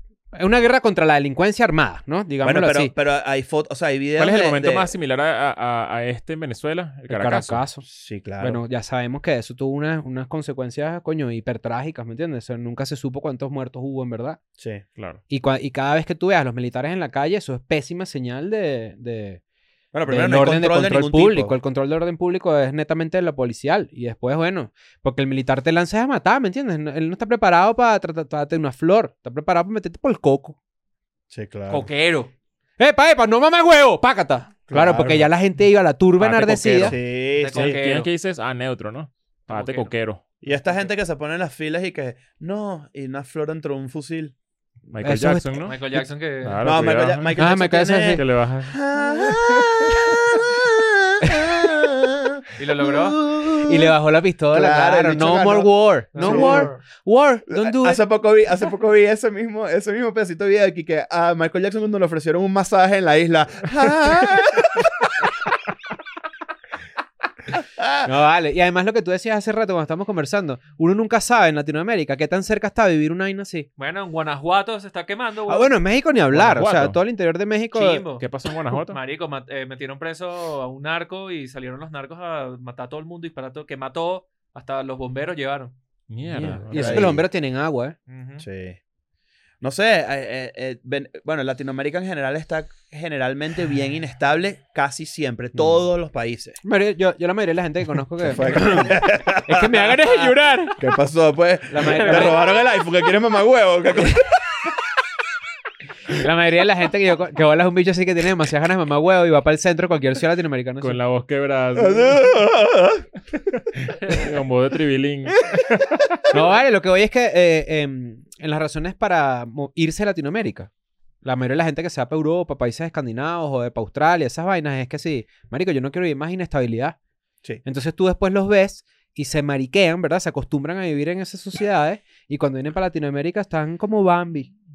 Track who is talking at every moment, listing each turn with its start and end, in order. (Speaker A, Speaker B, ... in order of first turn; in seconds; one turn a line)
Speaker A: 0.3-2.9
Speaker B: 2.4-4.9
Speaker C: 4.2-7.6
Speaker A: 7.1-7.8
Speaker B: 7.8-8.6
Speaker A: 8.4-14.4
Speaker A: 15.3-19.4
Speaker B: 19.9-21.5
Speaker A: 20.1-30.6
Speaker B: 31.3-31.9
Speaker D: 31.7-32.3
Speaker A: 32.8-36.9
Speaker B: 34.7-35.3
Speaker C: 36.2-37.0
Speaker B: 36.8-37.8
Speaker D: 37.4-38.1
Speaker C: 37.5-40.2
Speaker D: 39.5-39.9
Speaker B: 40.4-44.3
Speaker D: 40.5-40.9
Speaker C: 44.9-45.8
Speaker A: 45.0-46.1
Speaker D: 45.6-46.8
Speaker C: 46.4-47.4
Speaker B: 46.6-53.9
Speaker A: 47.4-48.2
Speaker C: 48.1-48.8
Speaker D: 52.6-53.2
Speaker A: 53.6-58.0
Speaker B: 54.5-56.7
Speaker D: 56.1-56.8
Speaker B: 57.5-65.3
Speaker B: 67.8-68.1
Speaker A: 68.0-73.7
Speaker D: 73.8-75.8
Speaker A: 75.5-78.0
Speaker C: 76.3-77.0
Speaker D: 77.7-78.2
Speaker C: 78.2-79.0
Speaker D: 78.8-85.7
Speaker C: 86.1-87.2
Speaker A: 86.3-87.9
Speaker B: 86.7-87.3
Speaker D: 88.1-88.4
Speaker B: 88.4-88.8
Speaker B: 89.6-96.6
Speaker A: 96.6-100.8
Speaker B: 98.2-104.3
Speaker A: 101.7-102.4
Speaker D: 101.8-102.4
Speaker A: 106.1-111.0
Speaker C: 110.8-112.3
Speaker B: 111.8-113.1
Speaker C: 113.5-116.2
Speaker A: 116.3-120.7
Speaker A: 121.2-127.0
Speaker A: 127.6-134.5